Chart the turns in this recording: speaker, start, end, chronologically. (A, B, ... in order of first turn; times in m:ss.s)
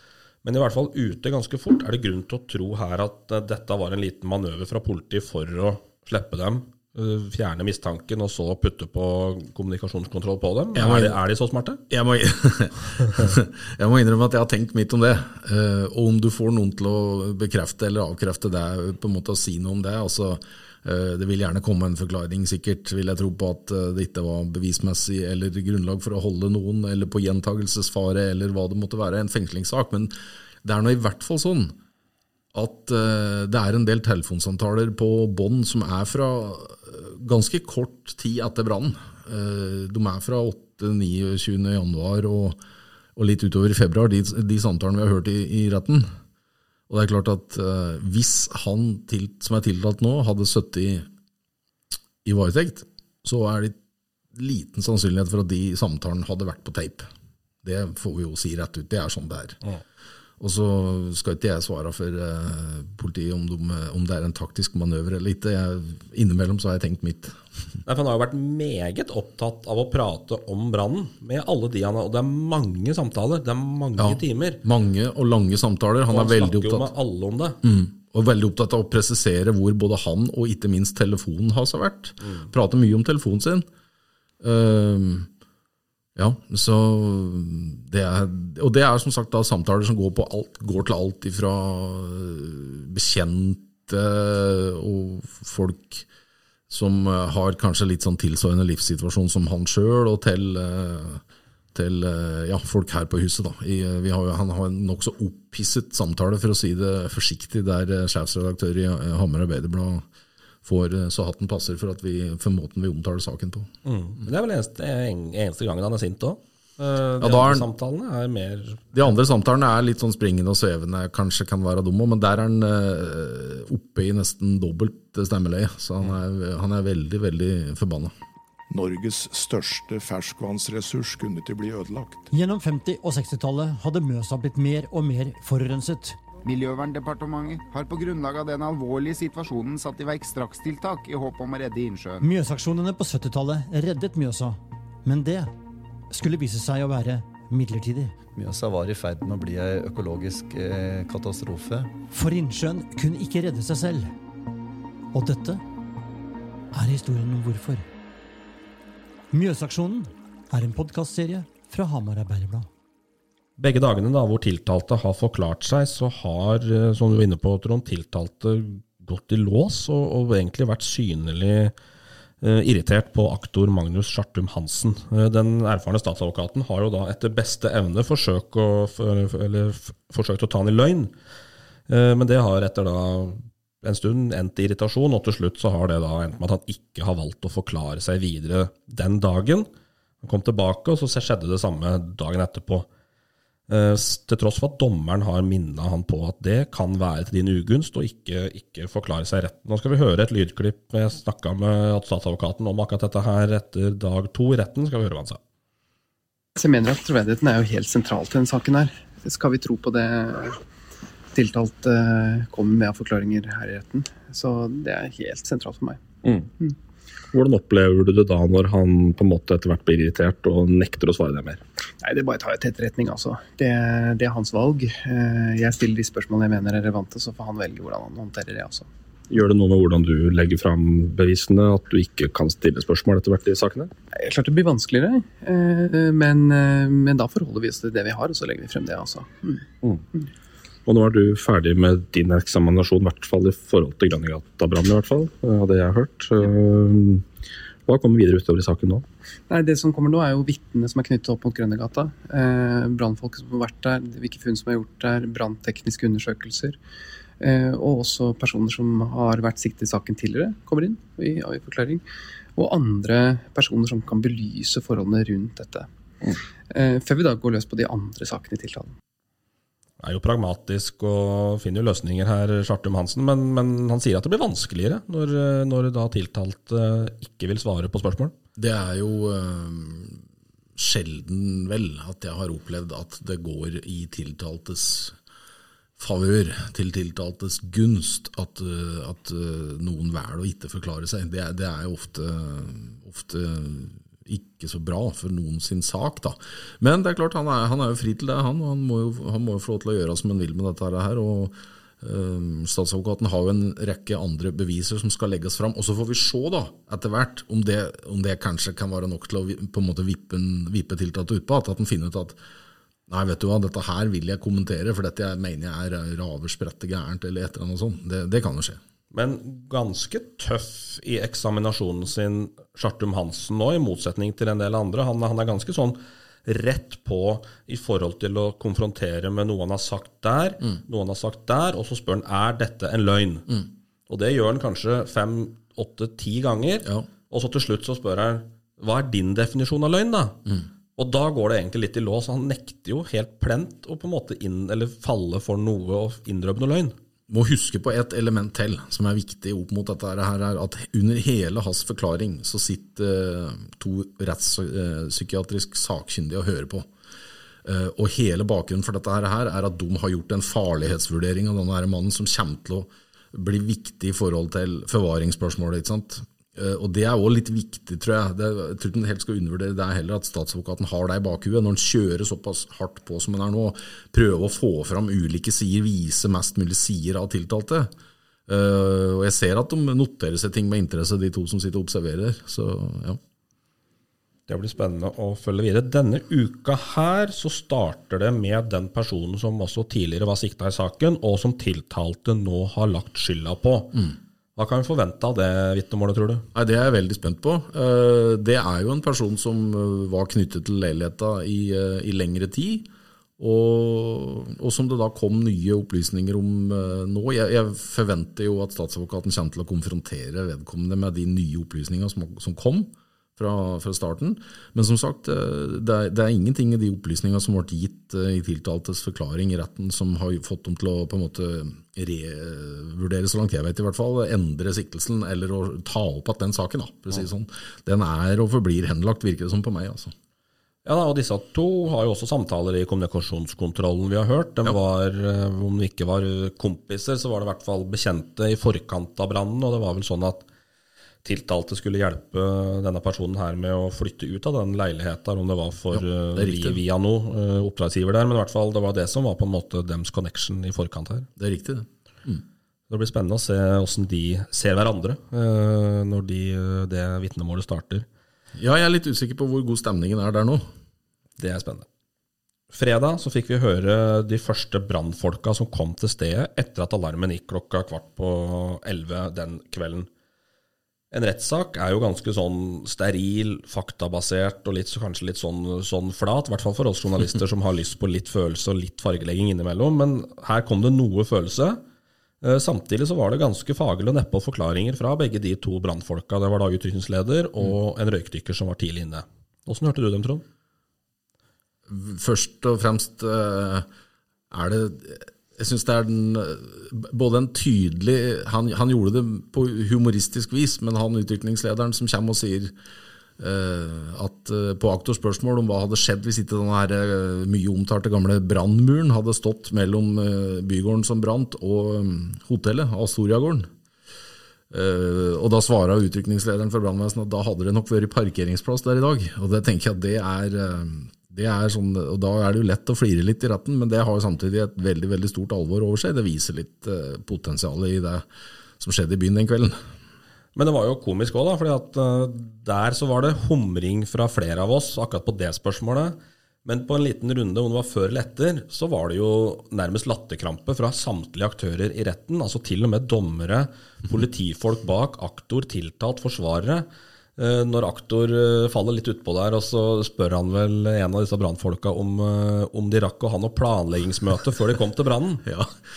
0:00.4-0:11.8 A
0:10.8-0:11.2 B
0:11.9-0:31.8 B
0:32.5-0:42.6 B
0:43.2-0:46.1 B
0:46.9-0:51.1 B
0:52.2-0:53.8 B
0:54.4-0:57.1 B
0:57.6-0:59.6 B
1:00.4-1:07.4 B
1:07.9-1:14.6 A
1:14.0-1:16.9 B
1:16.1-1:17.6 A
1:17.6-1:23.7 B
1:24.4-1:25.3 B
1:26.2-1:36.1 B
1:36.7-1:41.2 B
1:41.7-1:50.0 B
1:50.6-1:53.7 B
1:53.8-1:58.9 A
1:57.2-1:57.7 B
1:58.9-2:08.1 B
2:08.7-2:12.3 C
2:12.3-2:16.2 D
2:16.4-2:22.3 E
2:22.2-2:25.5 D
2:26.1-2:28.2 D
2:28.3-2:31.9 F
2:32.1-2:34.1 D
2:35.1-2:35.6 D
2:36.7-2:37.8 D
2:39.3-2:42.7 D
2:43.6-2:51.7 A
2:52.4-3:01.1 A
3:01.9-3:09.7 A
3:10.2-3:12.9 A
3:13.7-3:25.4 A
3:26.6-3:30.6 G
3:31.3-3:36.0 G
3:36.2-3:36.5 A
3:37.3-3:41.6 A
3:42.0-3:48.9 G
3:49.3-3:53.9 A
3:54.2-3:59.6 G
4:00.9-4:07.2 A
4:07.9-4:09.0 A
4:09.5-4:16.8 G
4:17.4-4:22.0 G
4:22.6-4:25.9 G
4:26.7-4:28.9 G
4:30.0-4:38.3 A
4:38.6-4:40.2 B
4:40.8-4:45.2 B
4:46.0-5:12.4 B
5:13.1-5:18.8 B
5:19.1-5:33.5 A
5:34.1-5:40.4 A
5:41.0-5:47.0 A
5:47.3-5:56.9 B
5:57.6-6:17.9 B
6:18.5-6:23.2 B
6:24.5-6:36.5 A
6:36.6-7:10.1 B
7:10.8-7:20.4 A
7:21.2-7:31.3 A
7:25.9-7:26.8 B
7:31.4-7:32.4 B
7:32.9-7:38.1 A
7:38.6-7:40.6 B
7:41.4-7:41.9 A
7:42.7-7:50.1 A
7:51.1-8:01.8 A
8:02.4-8:10.4 A
8:11.9-8:13.9 B
8:14.5-8:22.7 B
8:23.4-8:33.7 B
8:34.7-8:48.3 B
8:48.8-8:49.8 B
8:50.6-9:06.9 A
9:07.4-9:15.4 A
9:15.4-9:15.8 B